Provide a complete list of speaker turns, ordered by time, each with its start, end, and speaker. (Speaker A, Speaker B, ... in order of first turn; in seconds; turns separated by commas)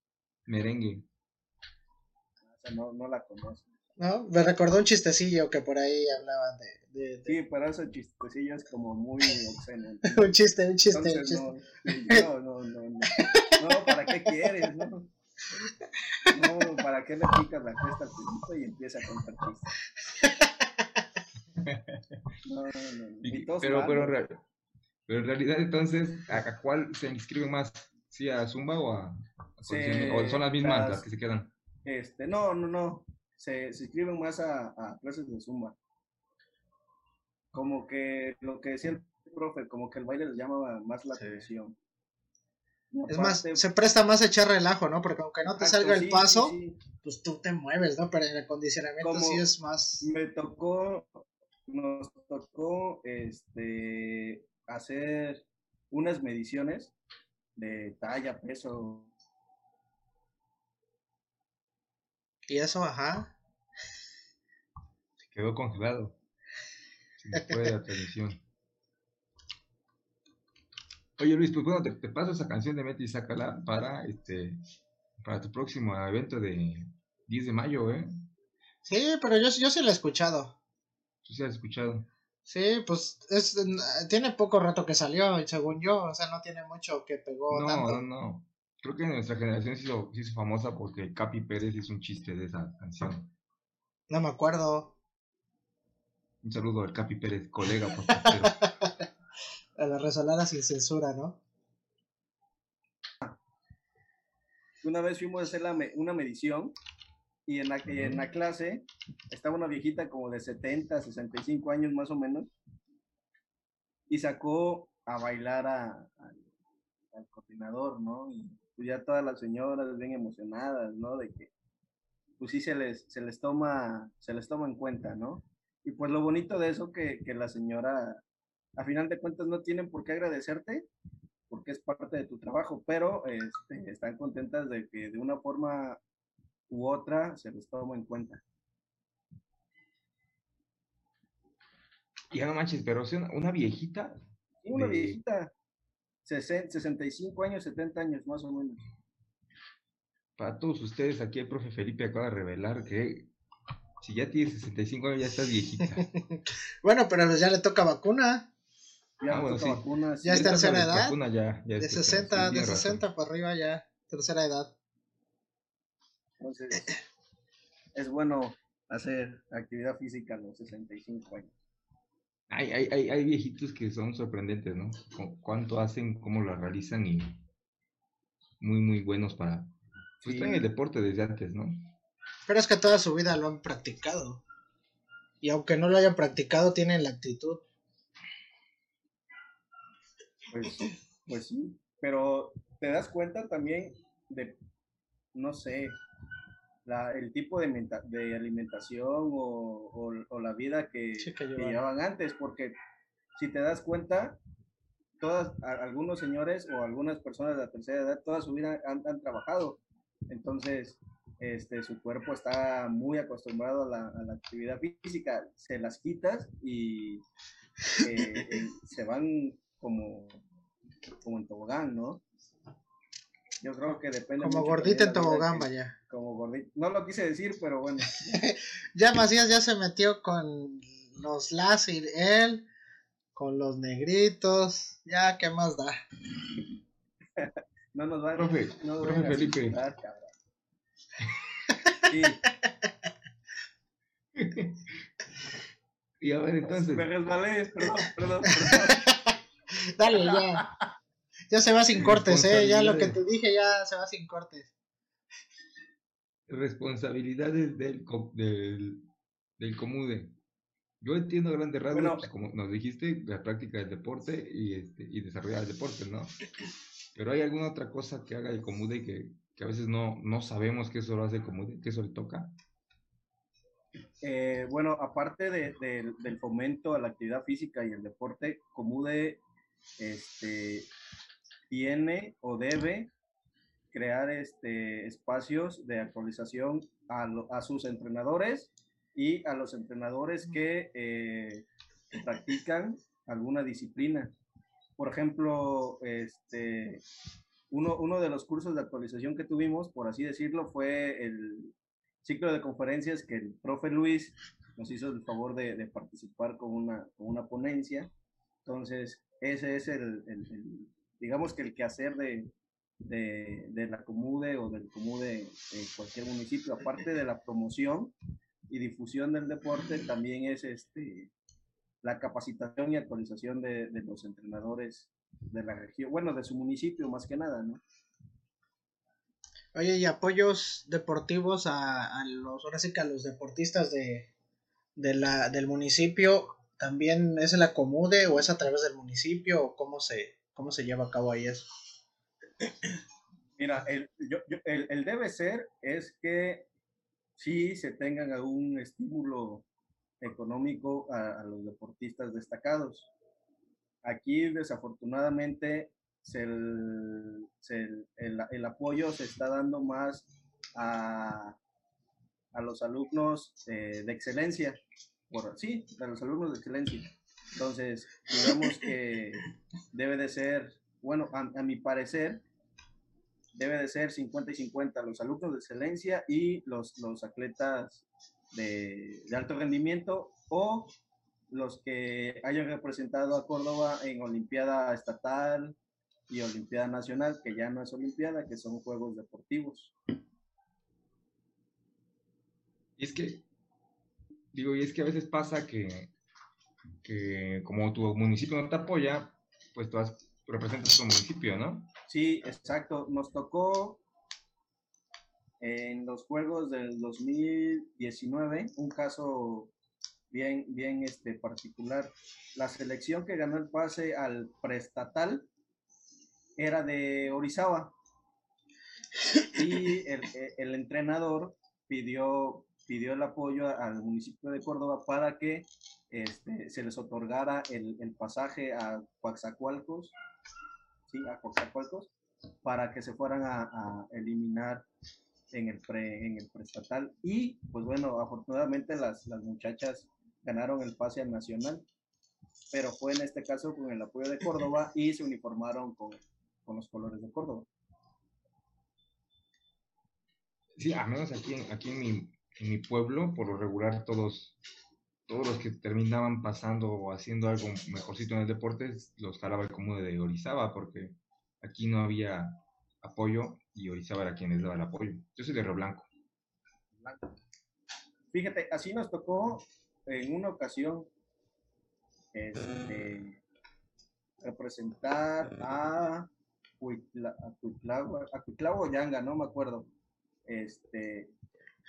Speaker A: 0.5-1.1, Speaker B: 2.5-3.7, Speaker C: 4.0-7.3, Speaker B: 7.3-10.3, Speaker C: 10.0-12.2, Speaker B: 10.9-15.1, Speaker C: 13.1-14.3, Speaker C: 16.2-16.5, Speaker B: 16.3-19.8, Speaker C: 20.2-20.5, Speaker A: 21.6-22.0, Speaker B: 22.4-24.1, Speaker A: 23.2-24.4, Speaker A: 25.1-31.5, Speaker B: 29.6-31.0, Speaker B: 31.8-35.8, Speaker B: 37.5-41.8, Speaker B: 42.9-43.6, Speaker C: 43.1-50.0, Speaker B: 45.6-46.8, Speaker B: 49.0-49.4, Speaker B: 50.0-56.9, Speaker B: 57.5-59.1, Speaker C: 62.5-63.3, Speaker A: 65.3-66.2, Speaker A: 67.2-68.4, Speaker A: 71.2-74.6, Speaker A: 75.2-78.2, Speaker C: 78.8-80.5, Speaker A: 81.2-82.1, Speaker C: 82.5-88.0, Speaker A: 87.5-93.3, Speaker C: 94.1-94.9, Speaker A: 96.4-98.6, Speaker C: 98.1-99.0, Speaker C: 99.8-101.4, Speaker B: 104.8-106.7, Speaker B: 107.5-112.5, Speaker A: 107.9-108.2, Speaker B: 114.1-116.5, Speaker B: 117.1-121.5, Speaker B: 122.4-128.2, Speaker B: 128.8-130.8, Speaker B: 131.5-136.0, Speaker B: 136.7-138.4, Speaker A: 142.3-145.2, Speaker B: 144.6-145.5, Speaker B: 146.2-148.8, Speaker A: 150.4-153.3, Speaker A: 154.0-156.0, Speaker C: 155.9-158.5, Speaker B: 159.2-160.9, Speaker A: 159.3-163.1, Speaker C: 160.2-161.2, Speaker C: 161.8-164.7, Speaker B: 166.4-167.0, Speaker B: 167.9-171.5, Speaker A: 172.5-177.4, Speaker A: 178.6-179.7, Speaker B: 180.2-180.7, Speaker A: 180.2-181.9, Speaker C: 182.5-184.4, Speaker C: 185.4-187.6, Speaker B: 190.5-194.6, Speaker B: 195.3-196.0, Speaker B: 196.8-202.7, Speaker C: 201.2-201.8, Speaker B: 203.3-204.4, Speaker B: 205.2-217.2, Speaker B: 218.0-220.4, Speaker B: 221.2-222.2, Speaker B: 223.6-228.4, Speaker C: 224.4-225.9, Speaker C: 228.3-232.7, Speaker C: 233.3-236.0, Speaker B: 237.4-240.3, Speaker A: 238.4-239.8, Speaker B: 242.0-242.4, Speaker A: 244.4-244.8, Speaker A: 246.2-247.1, Speaker B: 246.7-249.1, Speaker C: 249.0-250.6, Speaker B: 250.1-250.9, Speaker C: 251.5-254.7, Speaker A: 252.0-253.2, Speaker A: 256.5-259.0, Speaker A: 259.6-260.3, Speaker A: 261.0-266.4, Speaker B: 261.9-262.3, Speaker A: 267.1-272.5, Speaker B: 274.2-279.4, Speaker B: 280.0-280.9, Speaker B: 281.7-283.1, Speaker B: 283.9-294.3, Speaker B: 295.0-297.0, Speaker B: 297.7-308.1, Speaker B: 308.6-312.5, Speaker B: 313.0-318.1, Speaker B: 318.7-321.3, Speaker B: 322.0-327.8, Speaker C: 329.7-334.3, Speaker C: 335.0-341.7, Speaker B: 343.6-346.7, Speaker B: 347.4-349.6, Speaker B: 350.2-353.1, Speaker B: 354.0-361.6, Speaker B: 362.5-372.4, Speaker B: 373.5-380.9, Speaker B: 381.5-385.8, Speaker B: 386.3-389.9, Speaker A: 393.0-393.4, Speaker A: 394.5-396.1, Speaker A: 397.0-401.9, Speaker B: 402.1-404.0, Speaker B: 405.6-409.7, Speaker B: 410.3-415.5, Speaker B: 416.6-417.9, Speaker B: 419.4-430.1, Speaker B: 431.1-432.1, Speaker B: 432.6-434.9, Speaker B: 435.5-441.8, Speaker B: 442.7-447.7, Speaker A: 450.8-454.6, Speaker A: 455.3-466.1, Speaker B: 466.9-467.2, Speaker B: 468.3-471.1, Speaker B: 472.3-473.4, Speaker B: 474.4-476.3, Speaker B: 476.8-479.9, Speaker B: 480.5-481.3